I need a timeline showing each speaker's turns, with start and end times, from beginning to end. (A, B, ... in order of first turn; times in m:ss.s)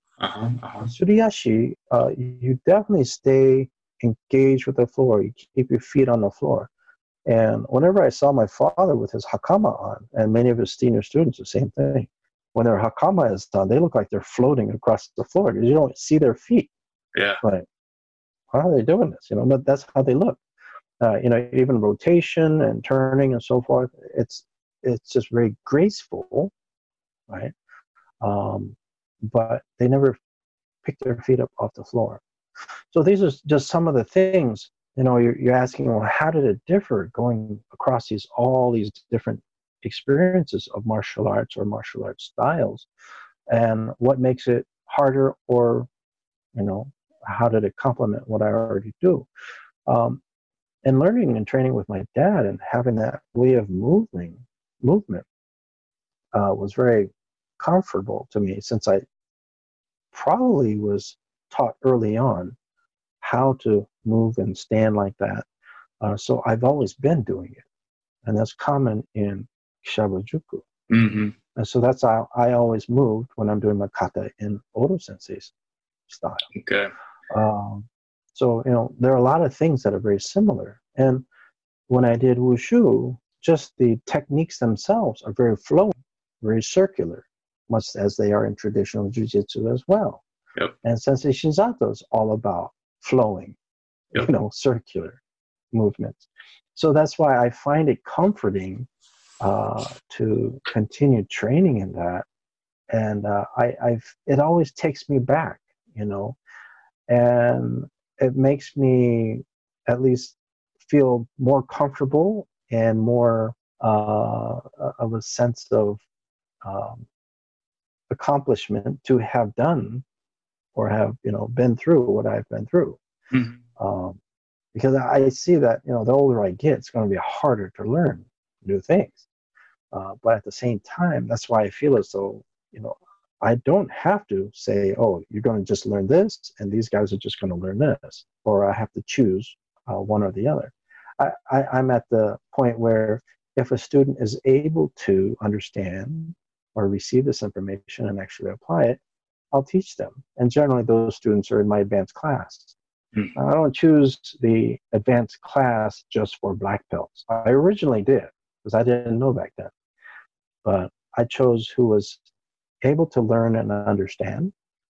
0:00.2-0:00.9 A
0:00.8-0:06.7 B
0:07.2-0:16.7 B
0:17.1-0:17.4 A
0:18.5-0:20.4 B
0:21.0-0:26.5 B
0:27.3-0:27.5 B
0:28.2-0:30.2 B
0:30.8-0:32.2 B
0:32.9-0:42.9 B
0:43.5-0:45.9 B
0:46.5-0:49.3 B
0:49.8-0:50.2 B
0:50.8-0:55.2 B
0:56.3-0:59.0 B
1:00.1-1:02.6 B
1:03.2-1:05.5 B
1:06.0-1:07.6 B
1:08.2-1:10.6 B
1:10.9-1:11.4 A
1:11.5-1:15.5 B
1:16.1-1:16.4 B
1:16.5-1:16.9 A
1:17.3-1:21.2 B
1:21.9-1:30.2 B
1:30.8-1:33.6 B
1:34.1-1:35.2 B
1:35.7-1:36.2 B
1:36.7-1:38.9 B
1:39.4-1:42.2 B
1:42.9-1:46.4 B
1:47.1-1:56.0 B
1:56.6-1:57.0 B
1:58.1-2:00.0 B
2:00.7-2:03.0 B
2:03.3-2:03.6 A
2:03.8-2:04.2 B
2:04.7-2:09.2 B
2:09.9-2:29.0 B
2:29.5-2:32.7 B
2:33.3-2:39.7 B
2:40.6-2:42.2 B
2:42.8-2:44.5 B